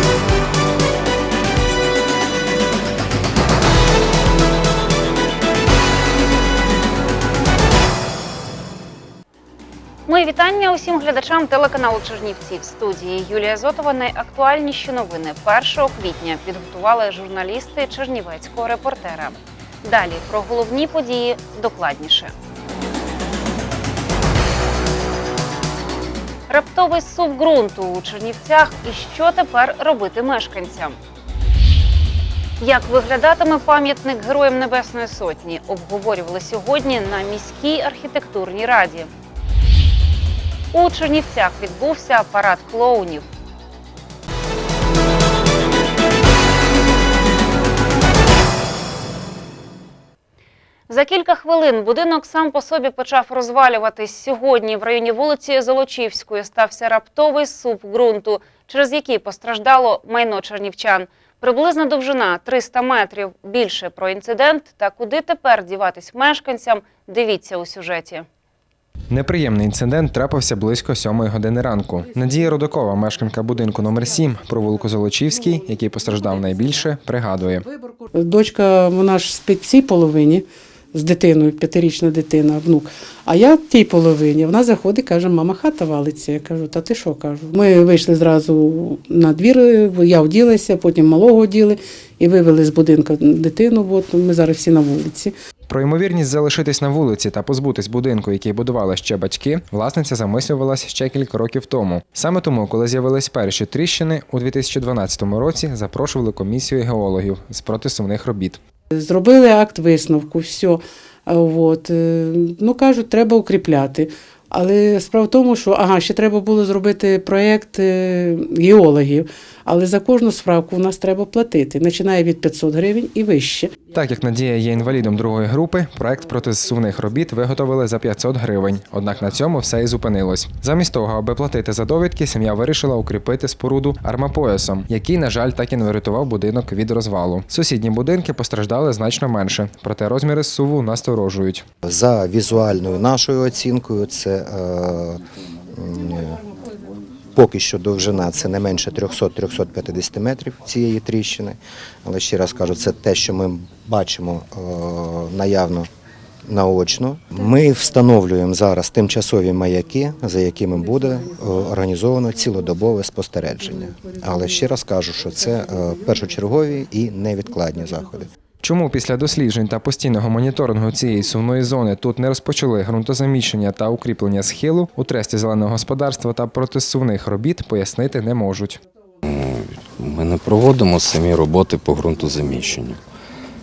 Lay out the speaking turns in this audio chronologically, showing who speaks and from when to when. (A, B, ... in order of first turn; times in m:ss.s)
0:10.1-0:22.3 A
0:26.5-0:31.0 A
0:32.6-0:39.1 A
0:40.7-0:43.2 A
0:50.9-1:08.3 A
1:09.1-1:17.7 B
1:17.6-1:35.3 C
1:35.7-1:48.6 B
1:49.0-2:03.8 C
2:03.9-2:21.7 B
2:21.8-2:26.4 D
2:27.3-2:35.9 D
2:36.4-2:48.3 D
2:48.6-2:58.8 B
2:59.2-3:03.0 E